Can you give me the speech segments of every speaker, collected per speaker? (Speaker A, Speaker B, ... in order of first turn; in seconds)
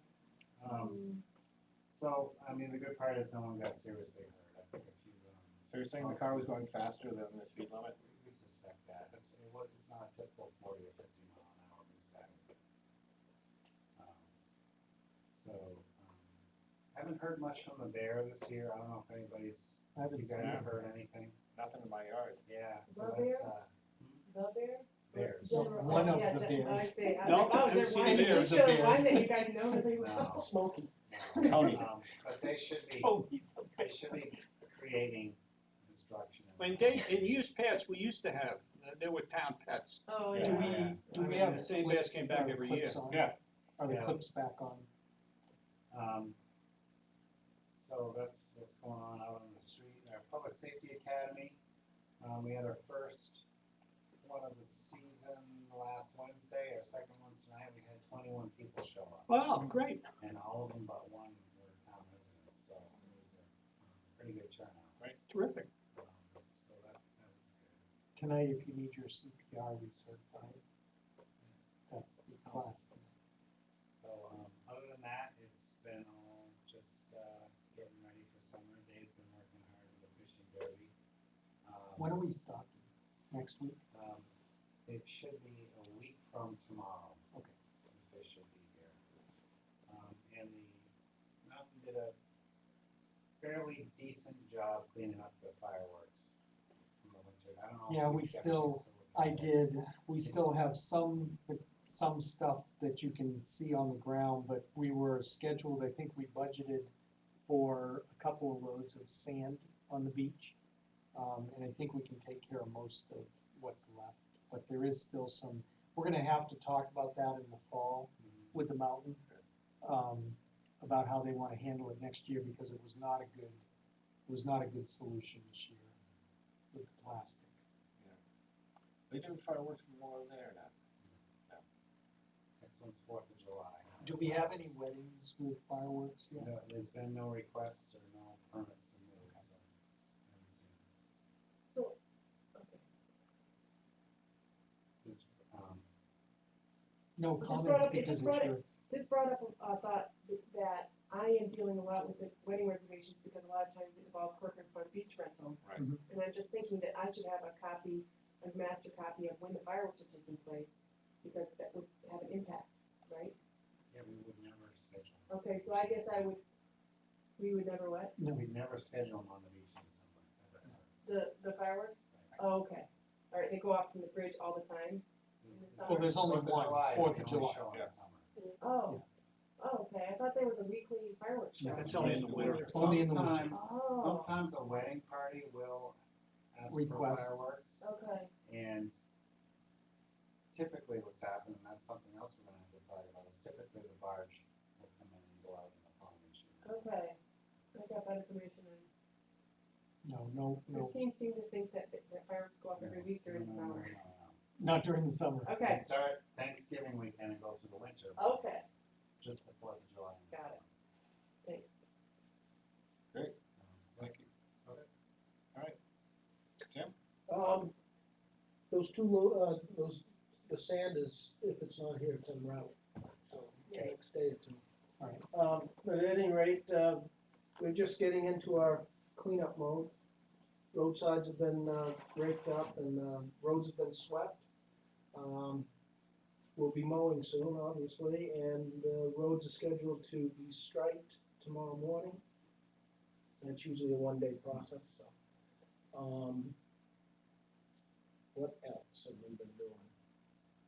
Speaker A: 0.6-1.1, 1.9-6.6, 8.0-12.6, 14.0-14.3, 15.3-16.4, 16.9-21.4, 22.5-24.2, 25.1-26.1, 29.9-30.5, 31.1-37.4, 40.4-41.0, 43.8-44.2, 45.9-46.4, 47.8-51.6, 52.2-53.5, 54.2-59.4, 60.2-65.0, 66.0-67.8, 73.9-80.9, 81.6-82.2, 83.9-84.3, 84.9-87.2, 87.9-89.0, 89.9-90.9, 91.4-92.2, 93.4-96.3, 97.0-99.6, 100.2-100.6, 118.2-118.5, 132.6-134.8, 136.3-139.7, 140.3-140.8, 145.0-145.8, 163.9-166.3, 168.3-171.0, 175.4-178.3, 182.2-186.0, 186.5-187.8, 188.4-189.0, 190.5-196.8, 202.8-204.4, 205.6-208.3, 209.2-210.7, 213.6-214.9
Speaker B: 0.7-1.2, 22.9-23.5, 24.3-30.6, 31.3-31.9, 40.1-40.9, 141.7-142.0, 142.6-142.8, 147.4-163.3, 165.3-166.4, 167.4-168.2, 171.1-176.4, 178.6-179.0, 179.6-182.1, 183.5-184.3, 187.8-188.3, 196.6-197.2, 197.7-198.9, 200.7-203.9, 205.4-205.8, 208.2-208.6, 210.3-210.6, 211.4-211.8, 223.7-223.9
Speaker C: 5.7-8.0, 20.4-20.6, 21.6-22.4, 31.4-31.9, 40.3-40.7, 43.1-43.3, 129.1-130.7, 181.8-182.6
Speaker D: 19.9-20.7, 25.4-29.3, 40.4-44.9, 68.2-70.6, 71.9-73.1, 82.0-83.8, 97.9-106.9, 107.5-110.6, 111.1-119.2, 119.8-123.6, 124.3-125.9, 126.7-127.5, 134.0-136.5, 147.2-148.7, 155.8-156.0, 168.2-168.4, 175.8-177.6, 181.6-183.7, 186.7-187.3, 200.0-201.0, 204.6-205.6
Speaker E: 27.2-29.0, 33.0-33.9, 36.6-43.0, 59.3-60.0, 65.3-65.7, 181.8-182.8
Speaker F: 217.3-217.7, 218.7-224.6, 225.3-227.1, 227.6-229.9, 230.7-234.4, 235.1-235.7, 236.6-242.2, 243.4-245.1, 245.9-246.6, 248.3-249.9